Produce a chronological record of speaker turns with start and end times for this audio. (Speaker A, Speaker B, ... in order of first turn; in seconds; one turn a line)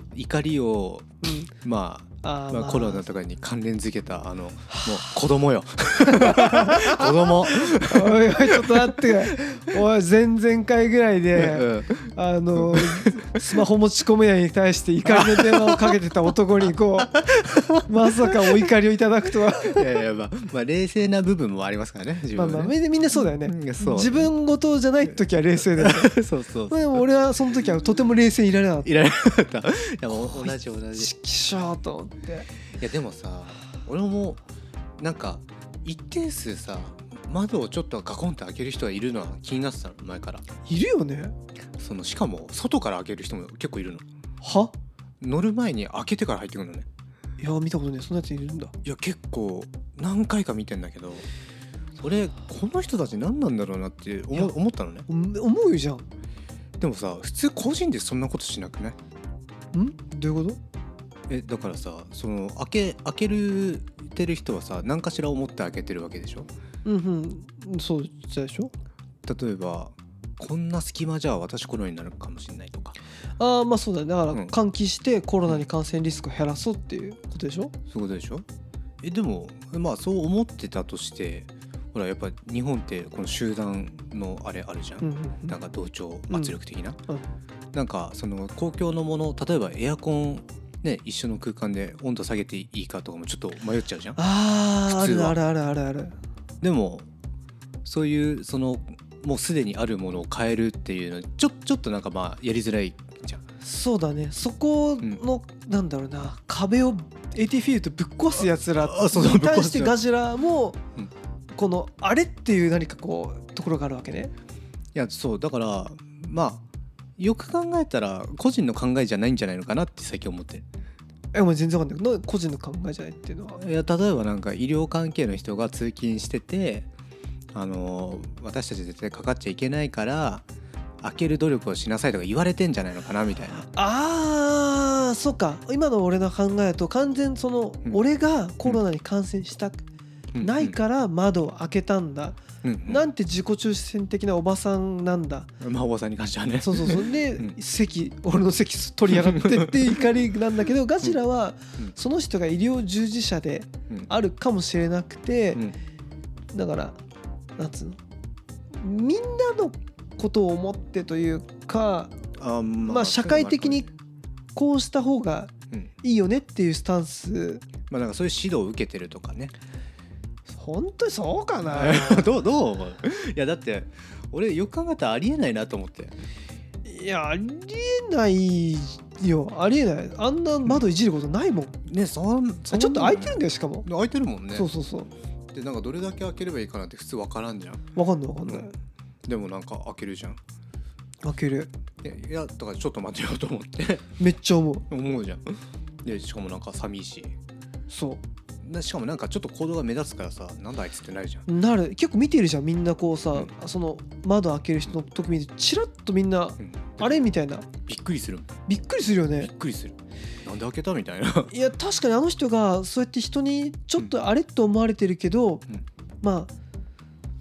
Speaker A: 0.1-9.2
Speaker B: 1.2-1.5
Speaker B: 2.2-3.0
Speaker B: 4.7-5.2
Speaker B: 6.0-17.2
Speaker A: 11.3-13.4
Speaker A: 15.1-16.0
Speaker A: 17.1-18.6
Speaker B: 17.8-20.0
Speaker A: 19.6-24.3
Speaker B: 22.3-26.1
Speaker A: 25.7-27.0
Speaker B: 26.7-28.9
Speaker A: 28.8-31.1
Speaker B: 30.1-32.5
Speaker A: 32.8-34.4
Speaker A: 35.0-40.4
Speaker B: 40.6-41.3
Speaker A: 41.8-44.0
Speaker B: 44.4-44.7
Speaker A: 45.2-46.9
Speaker B: 47.4-48.7
Speaker A: 48.8-51.3
Speaker A: 52.0-55.1
Speaker B: 55.1-56.0
Speaker A: 56.8-59.0
Speaker B: 59.7-60.6
Speaker A: 61.3-66.5
Speaker B: 66.8-68.7
Speaker A: 69.2-72.9
Speaker B: 73.4-77.7
Speaker A: 77.9-78.4
Speaker A: 79.0-87.0
Speaker B: 85.0-85.6
Speaker B: 86.3-86.5
Speaker B: 87.1-87.3
Speaker A: 87.7-94.2
Speaker B: 94.2-96.1
Speaker A: 94.9-95.3
Speaker A: 96.6-97.1
Speaker A: 97.8-103.4
Speaker B: 103.6-110.8
Speaker A: 108.8-110.0
Speaker B: 111.5-114.3
Speaker A: 114.9-116.6
Speaker A: 117.2-120.6
Speaker B: 121.3-123.6
Speaker A: 123.5-126.9
Speaker A: 127.5-130.4
Speaker A: 131.0-133.6
Speaker B: 133.5-139.8
Speaker A: 140.3-140.7
Speaker B: 140.4-145.5
Speaker A: 142.6-143.0
Speaker A: 145.6-147.5
Speaker B: 146.6-155.6
Speaker A: 149.1-149.9
Speaker B: 156.5-156.9
Speaker B: 157.6-158.0
Speaker B: 158.7-162.2
Speaker A: 162.4-163.8
Speaker B: 162.8-163.9
Speaker B: 164.5-165.5
Speaker B: 166.0-167.6
Speaker A: 167.9-169.5
Speaker B: 170.5-172.4
Speaker A: 171.6-176.1
Speaker B: 176.8-181.8
Speaker A: 181.8-184.7
Speaker B: 182.7-183.9
Speaker B: 184.5-185.1
Speaker A: 185.5-187.8
Speaker B: 187.9-188.7
Speaker A: 189.3-190.4
Speaker B: 191.2-191.7
Speaker A: 192.0-194.1
Speaker B: 194.2-194.8
Speaker A: 194.9-197.3
Speaker B: 197.9-198.2
Speaker A: 198.6-201.4
Speaker B: 201.5-207.7
Speaker A: 206.6-207.2
Speaker A: 207.8-208.5
Speaker B: 208.7-209.5
Speaker A: 209.4-211.5
Speaker B: 211.5-215.6
Speaker B: 216.2-216.5